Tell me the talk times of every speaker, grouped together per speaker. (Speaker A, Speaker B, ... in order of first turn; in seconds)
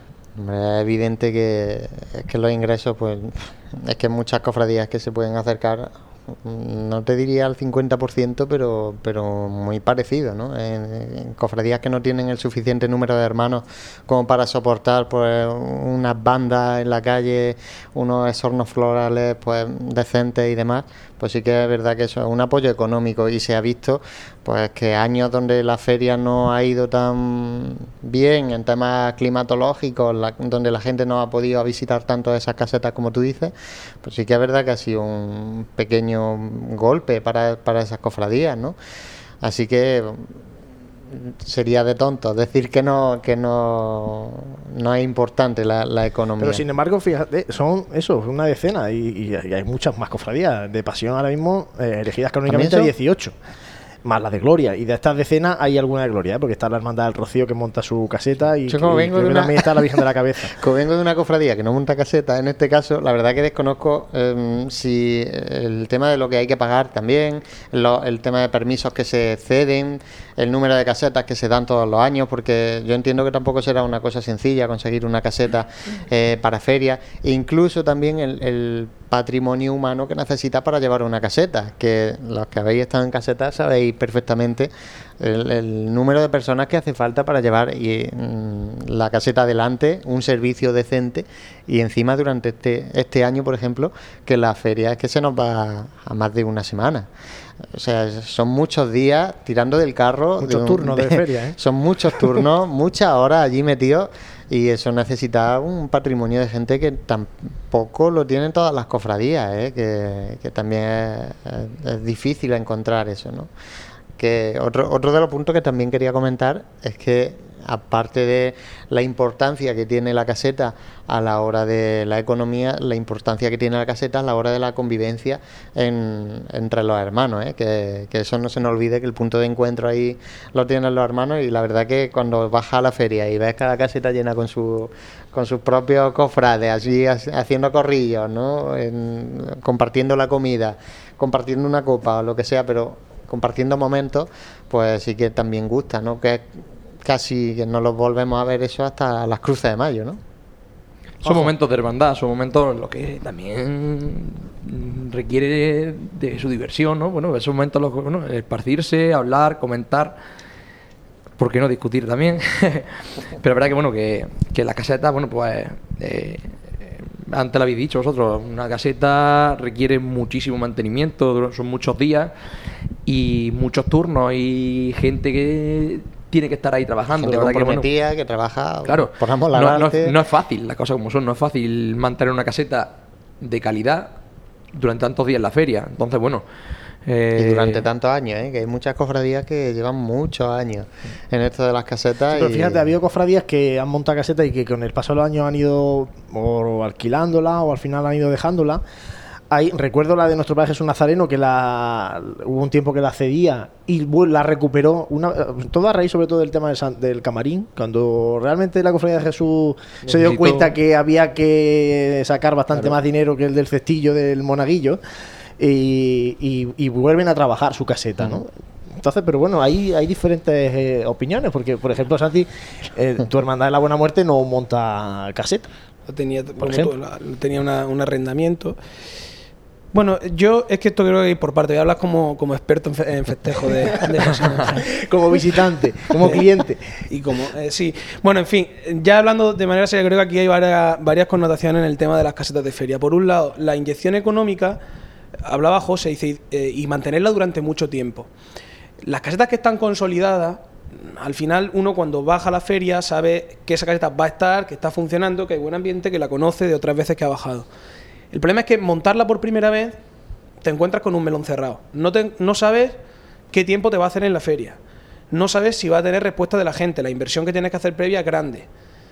Speaker A: 0.4-38.8, 39.4-40.4, 41.1-46.6, 52.5-52.9, 58.7-59.7, 60.6-84.7, 85.2-97.1, 97.7-113.5, 114.2-150.2, 177.1-180.2, 187.4-192.8
Speaker B: 46.4-53.3, 54.0-60.5, 100.4-101.6, 151.2-151.5, 192.3-198.8, 199.5-215.0, 215.6-225.7, 226.6-226.9, 234.9-237.0
Speaker C: 151.2-160.2, 161.4-172.3, 173.1-177.9, 178.9-184.1, 184.8-186.4, 187.1-187.8, 210.1-210.8
Speaker D: 226.1-228.8, 229.9-234.8, 237.1-244.8, 245.5-248.3, 249.0-257.7, 258.3-260.0, 260.6-263.0, 263.5-264.8, 265.3-268.7